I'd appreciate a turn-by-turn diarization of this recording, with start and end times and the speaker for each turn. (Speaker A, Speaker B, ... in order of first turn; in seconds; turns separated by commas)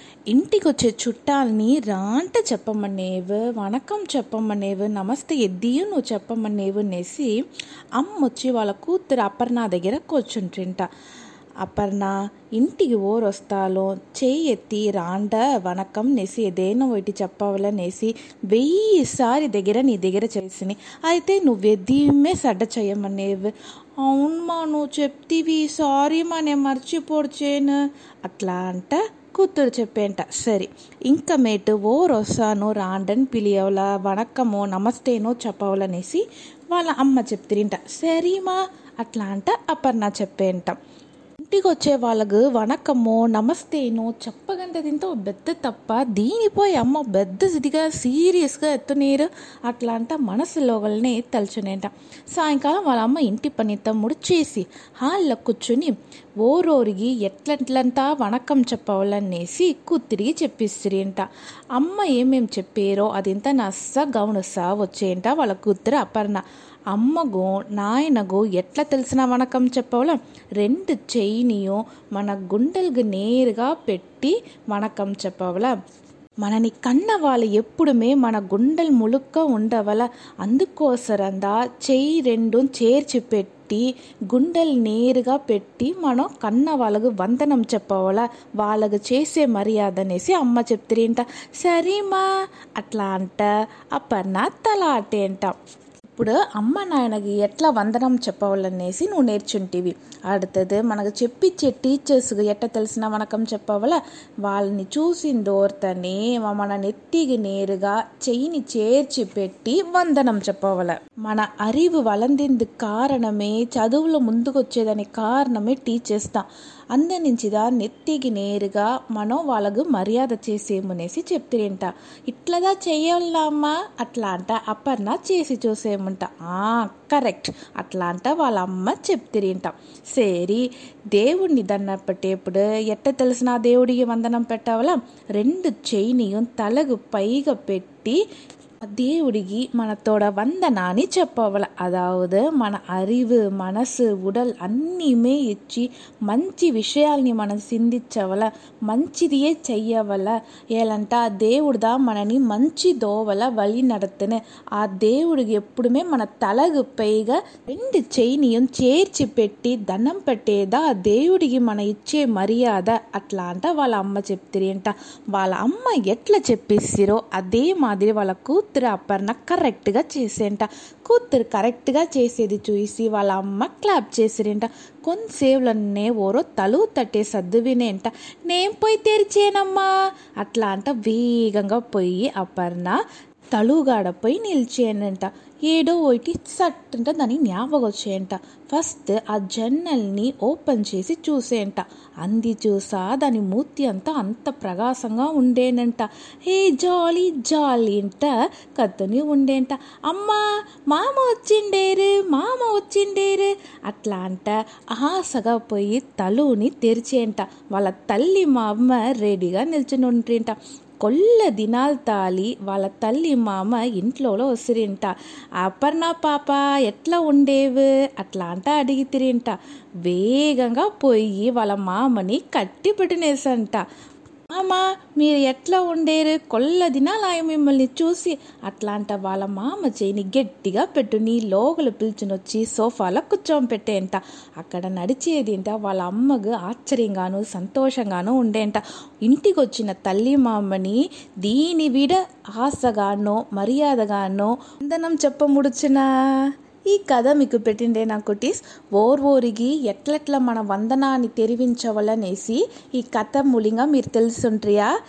Speaker A: 0.3-7.4, Speaker A: 8.0-10.9, Speaker A: 11.6-40.8, Speaker A: 41.4-75.7, Speaker A: 76.4-92.2, Speaker A: 92.8-95.5, Speaker A: 96.1-138.2, Speaker A: 138.8-179.9, Speaker A: 180.4-183.0, Speaker A: 183.5-215.1, Speaker A: 215.6-223.8, Speaker A: 224.5-254.9